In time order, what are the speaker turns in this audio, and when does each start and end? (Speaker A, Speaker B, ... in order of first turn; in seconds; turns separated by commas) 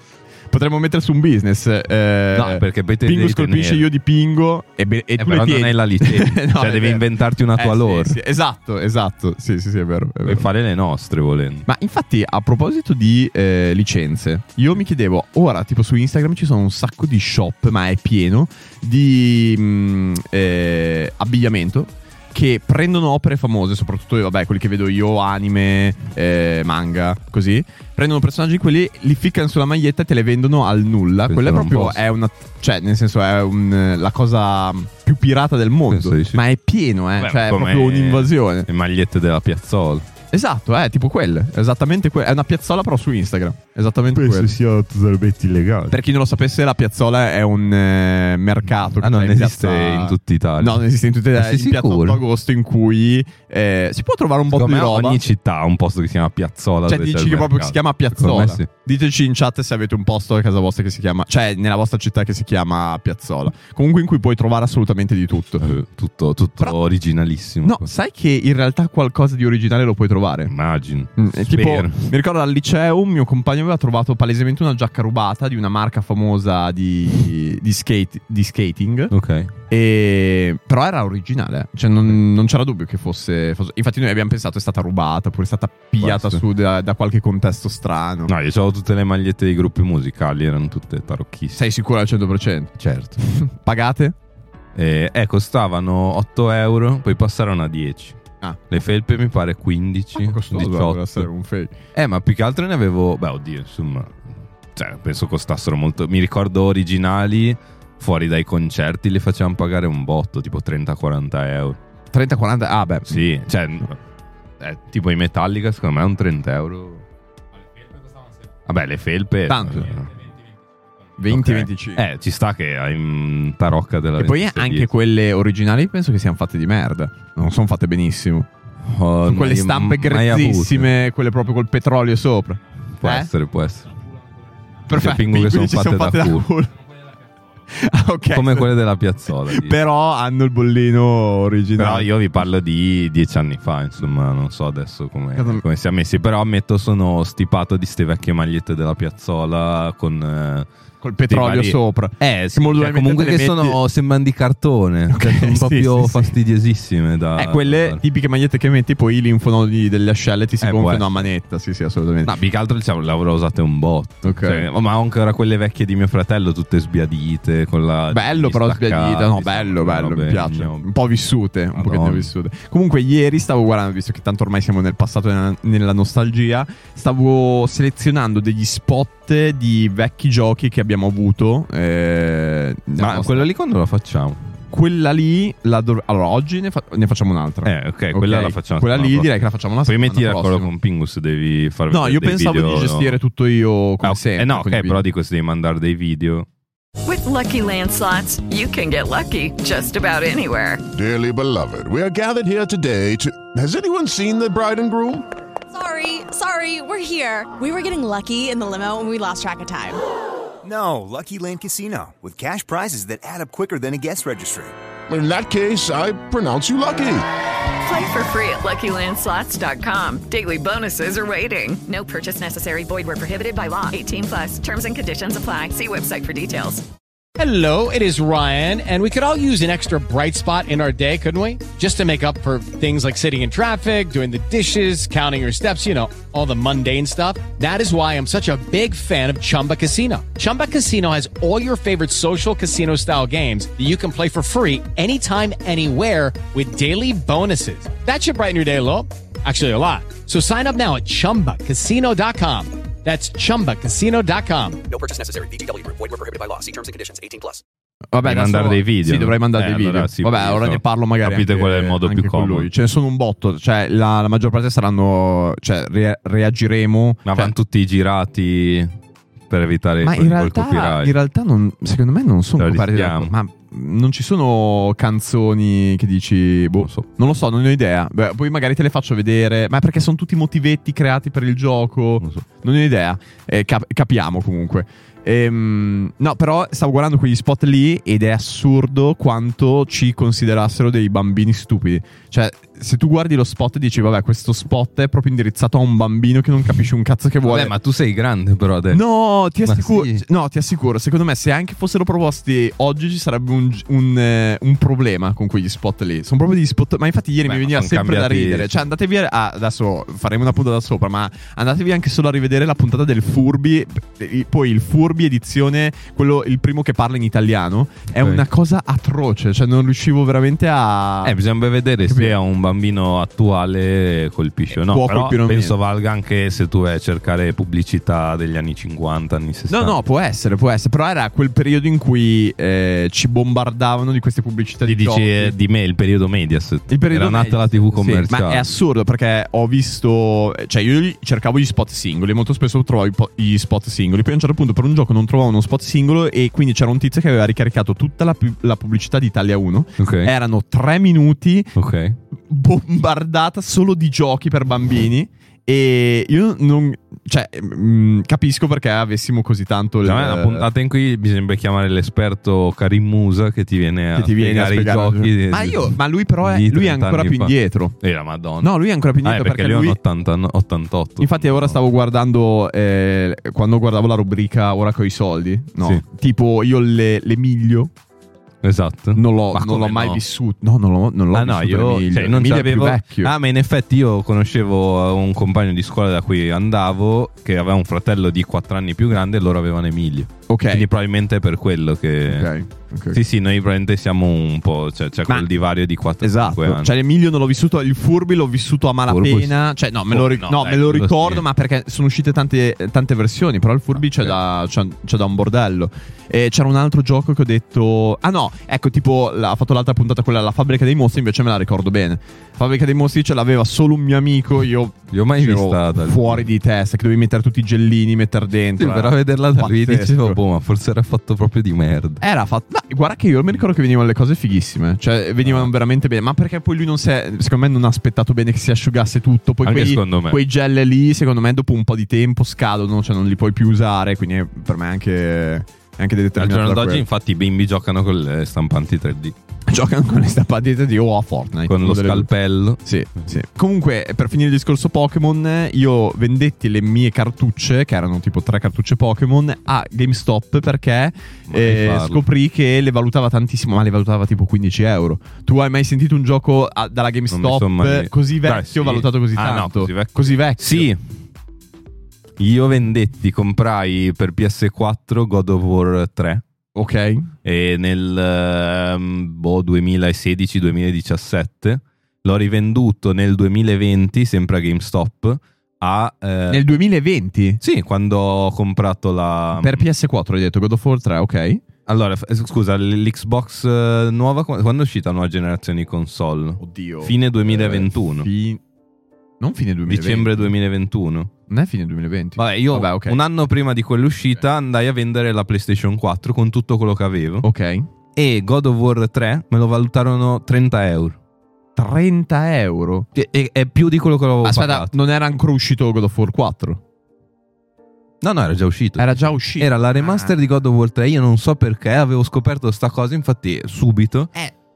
Speaker A: 0.5-10.5, Speaker B: 2.3-3.9, Speaker B: 5.2-8.2, Speaker B: 10.2-11.7, Speaker A: 11.7-38.7, Speaker B: 31.3-32.0, Speaker B: 35.9-36.4, Speaker B: 37.2-40.0, Speaker A: 40.3-44.5, Speaker B: 44.1-46.0, Speaker A: 45.9-55.2, Speaker B: 49.0-50.8, Speaker B: 51.3-52.2, Speaker B: 54.5-58.7, Speaker A: 56.9-65.6, Speaker B: 65.6-67.9, Speaker A: 67.6-70.5, Speaker B: 70.5-72.1, Speaker A: 71.2-79.1, Speaker B: 79.1-79.5, Speaker A: 79.7-88.3, Speaker B: 86.0-86.4, Speaker B: 88.3-91.7, Speaker A: 91.5-94.2, Speaker B: 92.8-93.2, Speaker B: 94.7-98.2, Speaker B: 98.7-101.3, Speaker A: 100.2-101.7, Speaker B: 101.9-111.8, Speaker A: 112.1-113.2, Speaker B: 113.1-114.0, Speaker B: 114.6-117.0, Speaker B: 118.7-120.2, Speaker A: 119.5-119.9, Speaker A: 121.2-122.0, Speaker B: 121.3-124.9, Speaker A: 124.2-128.5, Speaker B: 128.8-130.9, Speaker A: 129.2-133.3, Speaker B: 133.0-134.0, Speaker A: 134.9-136.7, Speaker B: 134.9-136.5, Speaker A: 137.7-138.7, Speaker B: 138.3-139.8, Speaker A: 139.4-142.1, Speaker B: 141.8-150.7, Speaker A: 145.3-145.6, Speaker A: 151.0-153.8, Speaker B: 151.3-158.0, Speaker A: 155.1-156.3, Speaker A: 157.3-162.3, Speaker B: 160.6-161.3, Speaker B: 162.2-170.9, Speaker A: 164.2-164.7, Speaker A: 168.1-183.5, Speaker B: 171.7-172.3, Speaker B: 182.9-184.5, Speaker A: 184.7-190.7, Speaker B: 187.6-189.3, Speaker B: 189.8-193.2, Speaker A: 191.9-195.0, Speaker B: 194.0-196.5, Speaker C: 197.0-200.8, Speaker D: 200.9-205.2, Speaker E: 205.7-210.0, Speaker F: 210.6-214.7, Speaker D: 215.1-217.2, Speaker C: 217.8-226.8, Speaker G: 227.4-254.8, Speaker H: 254.9-257.6, Speaker A: 258.1-267.5, Speaker B: 258.2-262.7, Speaker B: 267.2-268.9, Speaker B: 269.5-271.1, Speaker A: 270.0-297.7, Speaker B: 272.6-273.3, Speaker B: 276.8-277.1, Speaker B: 297.4-299.1, Speaker A: 298.9-321.4, Speaker B: 299.6-300.2, Speaker B: 307.4-308.8, Speaker B: 318.2-318.4, Speaker B: 321.2-330.0, Speaker A: 322.0-322.3, Speaker A: 324.7-325.8, Speaker A: 329.7-335.5, Speaker B: 334.8-338.7, Speaker A: 336.9-351.7, Speaker B: 350.0-350.3, Speaker B: 351.7-352.2, Speaker A: 352.5-360.7, Speaker B: 360.0-371.8, Speaker A: 364.1-367.9, Speaker A: 368.6-370.0, Speaker A: 371.2-377.9, Speaker B: 378.6-380.2, Speaker A: 379.1-383.3, Speaker B: 381.3-392.5, Speaker A: 390.5-390.9, Speaker A: 392.2-393.2, Speaker B: 393.1-396.9, Speaker A: 396.2-420.4, Speaker B: 399.1-399.6, Speaker B: 400.1-401.4, Speaker B: 403.9-404.4, Speaker B: 415.1-416.5, Speaker B: 418.8-422.2, Speaker A: 422.2-437.0, Speaker B: 425.4-425.7, Speaker B: 429.6-430.4, Speaker B: 436.3-439.3, Speaker A: 439.7-442.3, Speaker B: 441.7-442.8, Speaker A: 442.8-460.9, Speaker B: 451.5-452.2, Speaker B: 457.3-461.1, Speaker B: 462.4-466.4, Speaker A: 466.7-467.3, Speaker B: 467.4-476.6, Speaker A: 476.5-477.6, Speaker B: 477.6-479.9, Speaker A: 479.6-481.6, Speaker B: 481.9-488.3, Speaker A: 486.6-488.6, Speaker A: 489.4-490.5, Speaker B: 489.9-491.3, Speaker A: 491.5-493.2, Speaker B: 492.4-497.5, Speaker A: 497.4-497.9, Speaker B: 498.1-501.2, Speaker A: 501.8-503.1, Speaker B: 503.1-504.9, Speaker A: 504.4-506.8, Speaker B: 508.2-514.3, Speaker A: 509.0-510.3